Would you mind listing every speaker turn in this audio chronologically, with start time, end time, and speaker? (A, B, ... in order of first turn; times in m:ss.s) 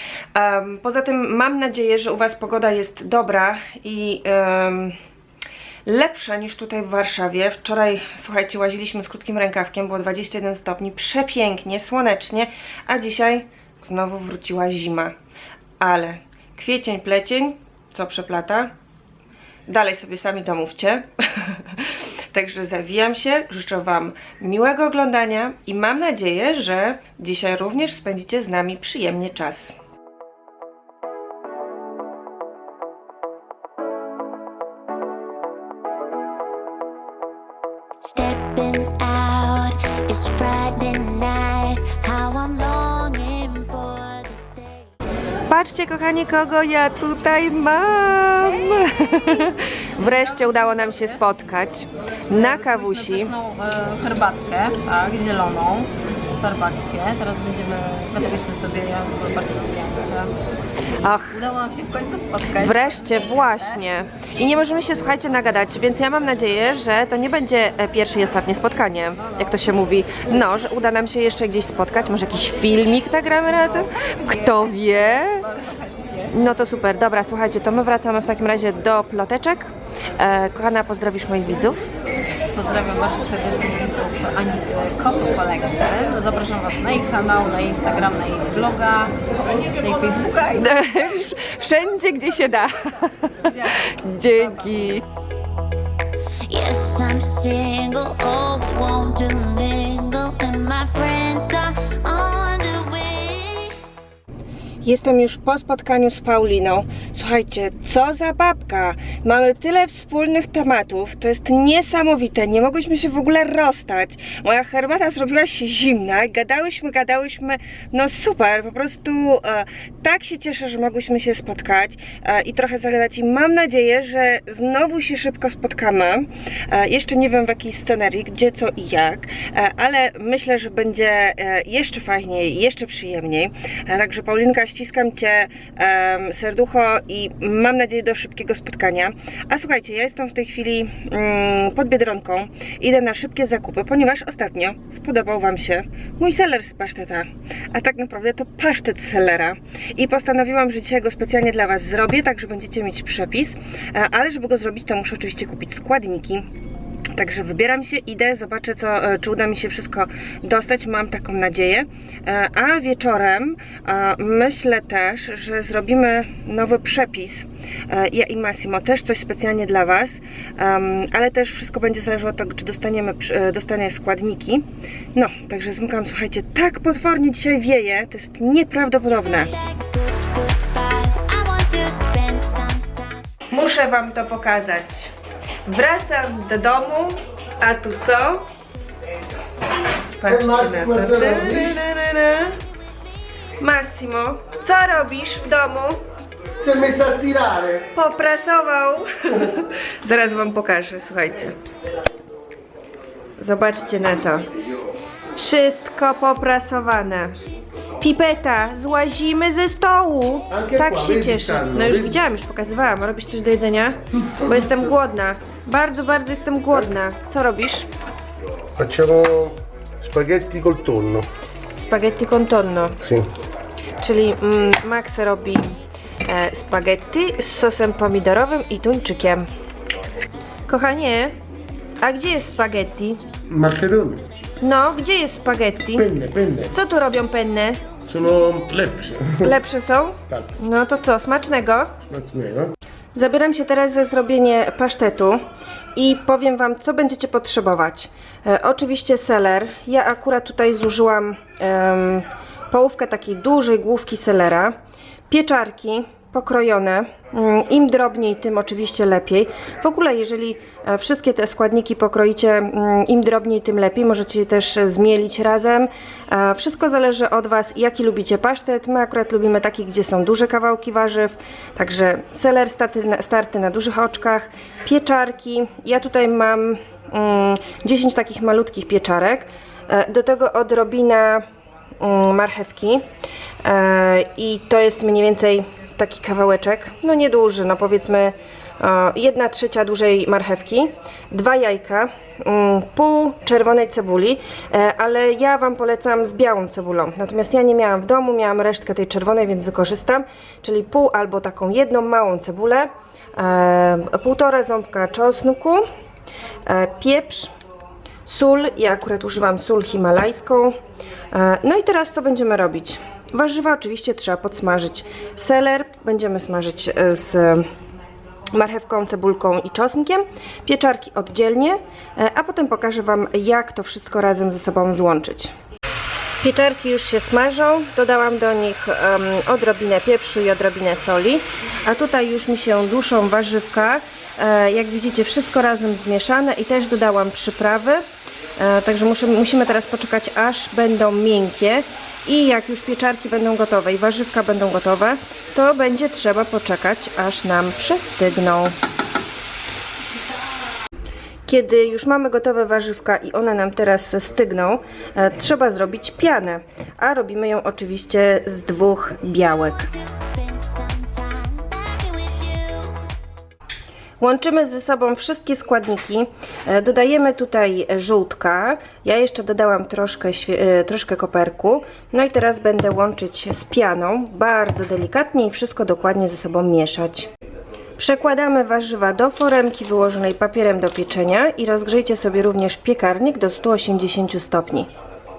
0:00.4-0:05.0 A
0:05.9-0:15.1 A
0:15.8-0:18.7 A
0:19.7-0:29.8 A
0:38.0-0:44.8 B
0:45.5-0:53.3 A
0:52.4-1:00.3 C
1:01.0-1:01.4 A
1:01.3-1:03.8 C
1:02.5-1:15.5 A
1:16.2-1:21.9 A
1:22.5-1:30.7 C
1:30.5-1:35.0 A
1:36.5-1:43.8 B
1:44.8-2:36.5 A
2:37.2-2:59.5 A
2:59.6-3:03.2 B
3:03.5-3:05.1 A
3:05.7-3:08.5 A
3:10.1-3:12.6 A
3:10.3-3:11.8 D
3:13.6-3:16.0 A
3:16.6-3:17.9 D
3:17.9-3:21.6 A
3:23.4-3:24.5 A
3:25.4-3:27.4 A
3:28.0-3:37.9 A
3:30.5-3:32.2 D
3:34.3-3:34.9 D
3:38.8-3:41.3 D
3:41.8-3:43.0 A
3:43.0-3:43.3 D
3:44.0-3:49.5 A
3:50.7-3:51.4 A
3:52.0-3:53.3 A
3:53.5-3:54.2 D
3:54.6-3:56.1 A
3:56.0-3:56.8 D
3:56.7-3:57.8 A
3:58.1-3:59.5 D
3:59.4-4:02.0 A
4:02.1-4:02.7 D
4:03.2-4:05.4 A
4:06.0-4:14.7 A
4:15.3-4:41.4 A
4:42.0-4:43.0 A
4:43.6-5:05.8 A
5:06.7-5:07.5 A
5:08.3-5:10.7 A
5:11.3-5:17.7 A
5:18.5-5:25.5 A
5:26.4-5:38.0 A
5:38.6-5:48.7 A
5:51.5-5:59.9 A
6:00.0-6:03.0 B
6:04.2-6:17.3 A
6:18.0-6:24.9 A